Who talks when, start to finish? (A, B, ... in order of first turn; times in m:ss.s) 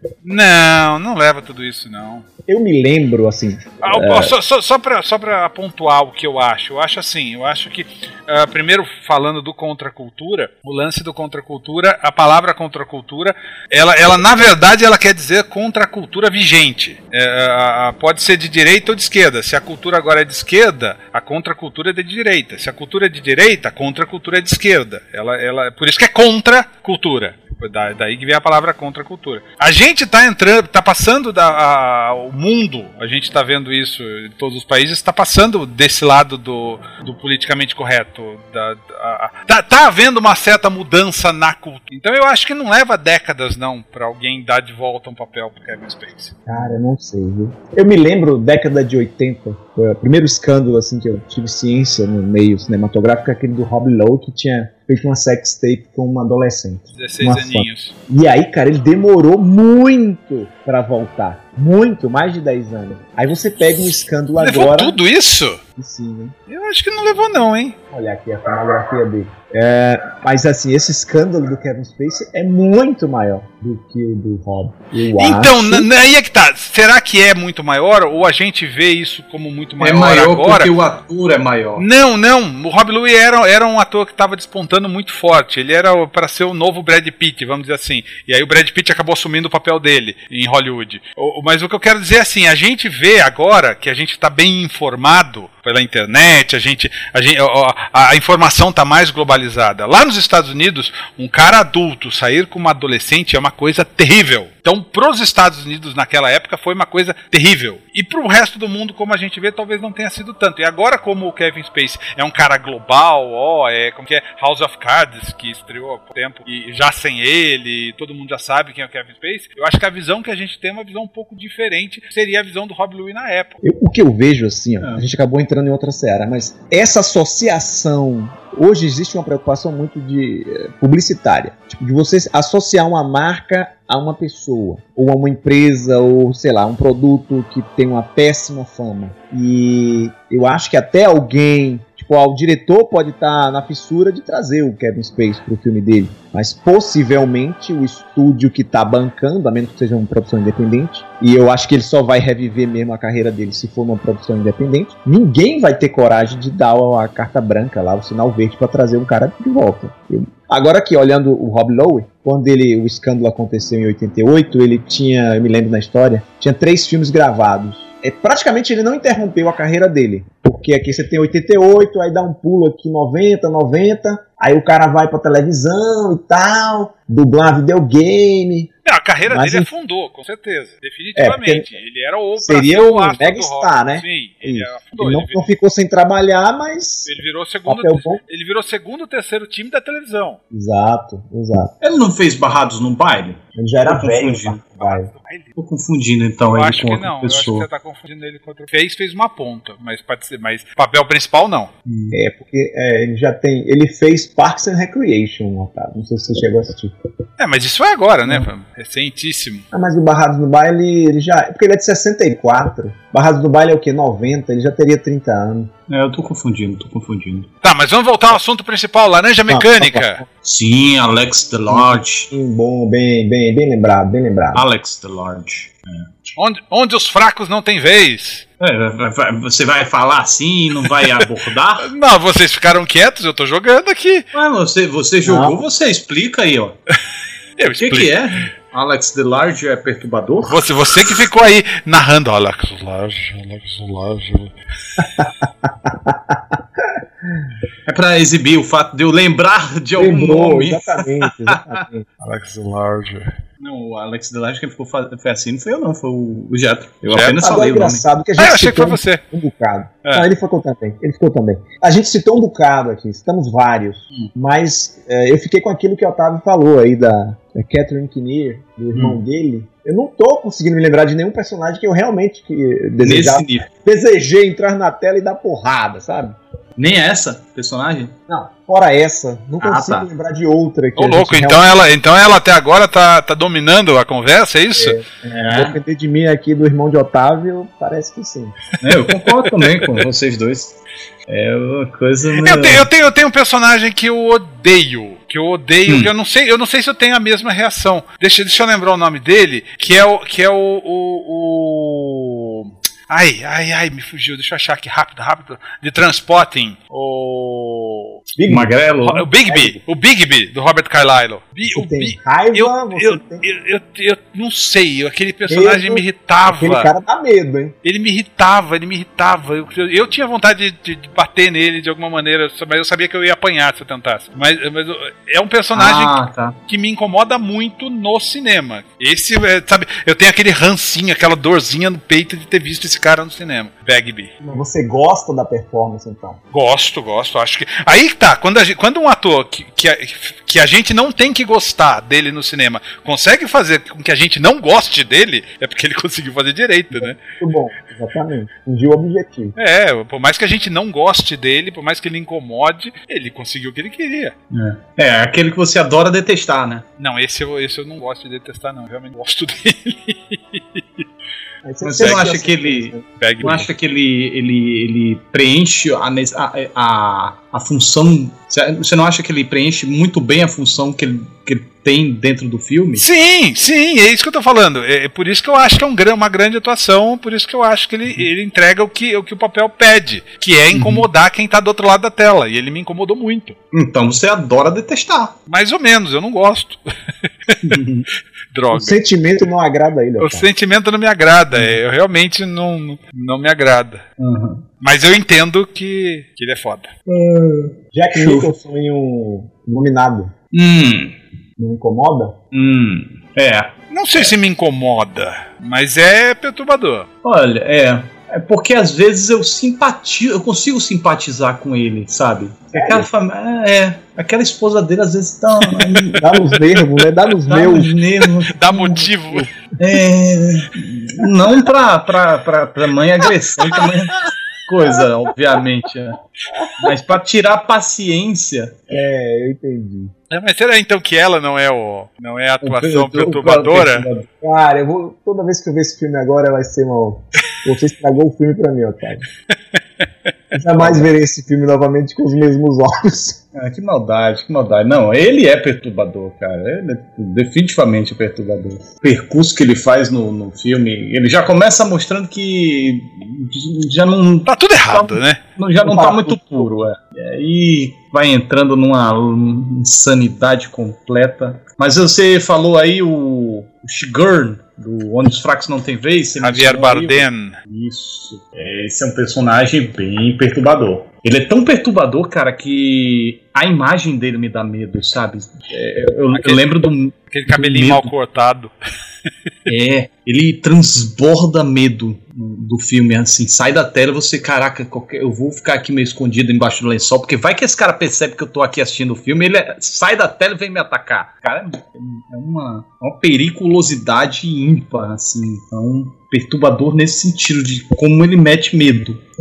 0:00.2-0:02.2 A
0:02.5-0:04.3 B
0:03.8-0:46.4 A
0:46.5-1:05.0 B
0:56.9-0:57.9 A
1:04.4-1:05.6 A
1:05.8-1:06.3 B
1:06.5-1:07.8 A
1:07.9-1:15.9 B
1:15.2-1:20.7 A
1:19.8-1:21.8 C
1:21.8-2:03.6 A
2:03.6-2:58.7 B
2:04.8-2:05.0 C
2:58.8-3:05.5 A
2:59.3-2:59.7 B
3:01.2-3:01.7 B
3:02.4-3:07.1 B
3:07.0-3:10.4 A
3:07.7-3:08.2 B
3:10.5-3:11.7 B
3:11.8-3:14.6 C
3:13.6-3:15.1 B
3:14.8-3:15.5 A
3:15.6-3:17.7 C
3:16.5-3:21.7 A
3:21.9-3:22.2 C
3:22.1-3:26.9 B
3:27.4-3:29.6 A
3:29.7-3:35.7 B
3:35.9-3:37.5 C
3:37.6-3:40.2 A
3:39.5-3:40.2 B
3:40.4-3:42.3 C
3:41.7-3:44.6 B
3:44.5-3:46.1 C
3:46.4-3:48.4 A
3:48.6-3:51.9 C
3:51.8-3:54.2 A
3:54.3-3:56.8 C
3:55.2-3:55.6 B
3:57.6-3:58.2 A
3:57.8-4:01.2 C
4:00.4-4:04.5 A
4:05.0-4:07.5 B
4:07.8-4:11.8 C
4:10.0-4:12.1 B
4:12.2-4:13.3 A
4:13.6-4:18.0 C
4:17.1-4:17.4 A
4:17.2-4:36.4 B
4:18.4-4:19.2 A
4:33.0-4:33.7 C
4:36.8-4:38.1 C
4:38.3-4:41.8 B
4:39.6-4:40.1 C
4:41.0-4:45.0 A
4:44.8-4:48.6 B
4:45.2-4:45.8 C
4:48.8-4:52.9 C
4:52.4-5:08.2 A
5:08.4-5:08.8 B
5:08.4-5:09.3 C
5:09.0-5:16.9 A
5:09.4-5:09.8 B
5:11.7-5:13.4 B
5:15.5-5:17.8 B
5:17.8-5:34.3 A
5:25.7-5:26.6 C
5:34.4-5:36.4 B
5:36.5-5:47.2 A
5:46.9-5:49.5 B
5:49.6-5:54.3 A
5:54.5-5:56.9 C
5:57.0-6:01.0 A
6:01.6-6:03.5 B
6:01.8-6:13.0 C
6:03.2-6:03.7 A
6:13.0-6:23.6 A
6:20.7-6:21.1 C
6:23.7-6:25.4 C
6:25.5-6:27.8 A
6:27.7-6:28.0 C
6:28.5-6:29.0 A
6:28.7-6:30.5 B
6:30.2-6:34.0 A
6:34.2-6:34.6 C
6:34.8-6:36.9 A
6:37.1-6:38.5 C
6:37.9-6:40.3 B
6:40.5-6:41.2 C
6:41.6-6:42.4 B
6:42.5-6:44.3 C
6:43.9-6:47.1 A
6:47.2-6:56.6 C
6:52.7-6:53.1 B
6:55.9-6:56.1 A
6:56.2-6:58.0 B
6:57.4-6:59.1 C
6:58.5-6:59.5 A
6:59.8-7:06.2 C
7:06.8-7:08.8 C
7:08.9-7:10.1 B
7:10.3-7:14.1 A
7:12.6-7:14.3 C
7:14.4-7:19.2 B
7:20.5-7:23.4 B
7:20.8-7:21.1 C
7:23.5-7:58.1 C
7:34.4-7:35.4 A
7:35.8-7:36.7 B
7:46.4-7:47.6 A
7:56.4-7:56.6 A
7:57.3-7:58.7 A
7:59.7-8:19.2 C